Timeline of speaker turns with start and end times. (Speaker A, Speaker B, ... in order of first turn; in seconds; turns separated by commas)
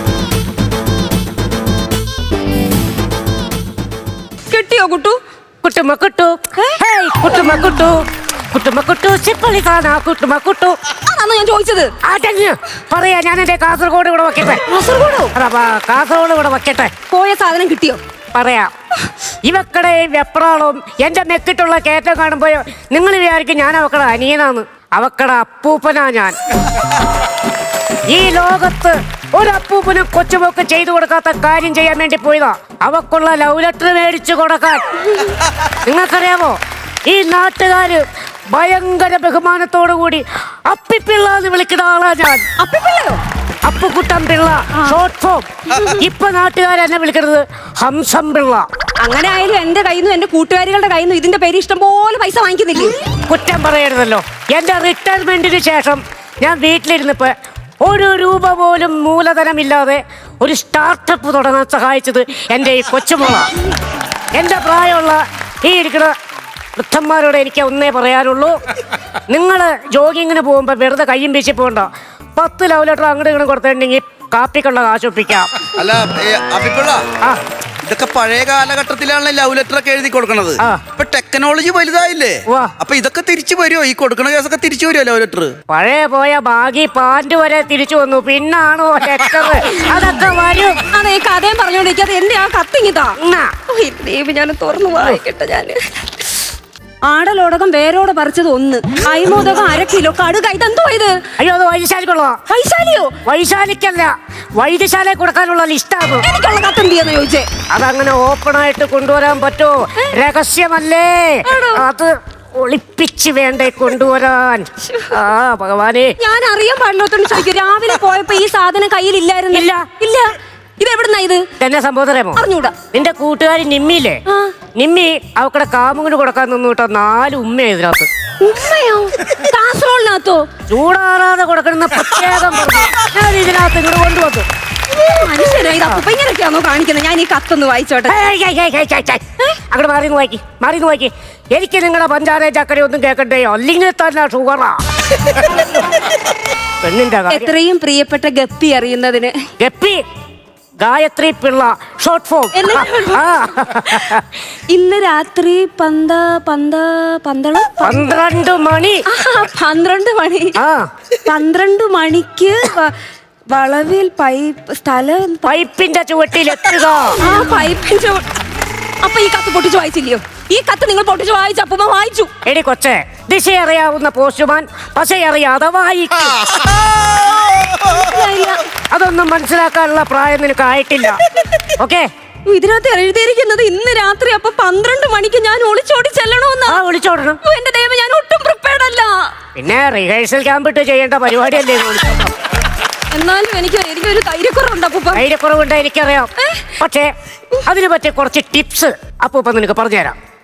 Speaker A: 4.5-5.2, Speaker B: 5.6-10.8, Speaker A: 6.6-7.6, Speaker A: 11.0-11.9, Speaker B: 12.0-14.7, Speaker A: 14.7-15.3, Speaker B: 15.3-16.9, Speaker A: 17.1-18.0, Speaker B: 18.3-18.7, Speaker B: 19.4-26.4, Speaker B: 28.1-35.0, Speaker B: 35.8-42.5, Speaker A: 42.6-43.2, Speaker B: 43.6-48.6, Speaker A: 45.7-46.0, Speaker A: 49.0-53.0, Speaker B: 53.3-63.6, Speaker B: 64.3-66.1, Speaker B: 66.8-68.6, Speaker B: 69.3-75.6, Speaker C: 75.7-77.1, Speaker C: 77.8-85.6, Speaker B: 80.6-80.9, Speaker B: 82.5-82.8, Speaker B: 85.7-90.8, Speaker A: 90.9-93.2, Speaker B: 93.2-93.5, Speaker A: 93.7-96.2, Speaker A: 97.0-101.2, Speaker B: 101.4-102.4, Speaker A: 102.5-103.2, Speaker B: 103.2-106.2, Speaker A: 106.2-107.5, Speaker B: 107.7-116.1, Speaker A: 111.5-111.8, Speaker A: 114.8-115.2, Speaker A: 116.2-121.5, Speaker B: 119.5-119.9, Speaker B: 121.6-124.2, Speaker A: 122.4-122.8, Speaker A: 124.3-124.5, Speaker B: 124.8-128.1, Speaker A: 128.4-130.5, Speaker B: 130.7-134.5, Speaker A: 134.9-138.2, Speaker B: 138.1-146.1, Speaker B: 146.8-147.5, Speaker A: 147.3-149.4, Speaker B: 149.6-150.0, Speaker B: 150.8-154.3, Speaker A: 152.5-158.1, Speaker B: 157.8-159.1, Speaker A: 159.1-160.6, Speaker B: 160.6-160.9, Speaker A: 161.2-162.9, Speaker A: 163.5-165.5, Speaker B: 165.5-167.2, Speaker A: 167.2-168.3, Speaker A: 169.0-172.3, Speaker B: 172.4-176.7, Speaker A: 177.6-178.7, Speaker B: 178.8-182.1, Speaker A: 182.5-186.8, Speaker B: 186.7-187.4, Speaker A: 187.4-189.3, Speaker B: 189.6-192.3, Speaker A: 193.1-195.2, Speaker B: 195.1-197.1, Speaker A: 196.4-196.8, Speaker B: 197.6-200.2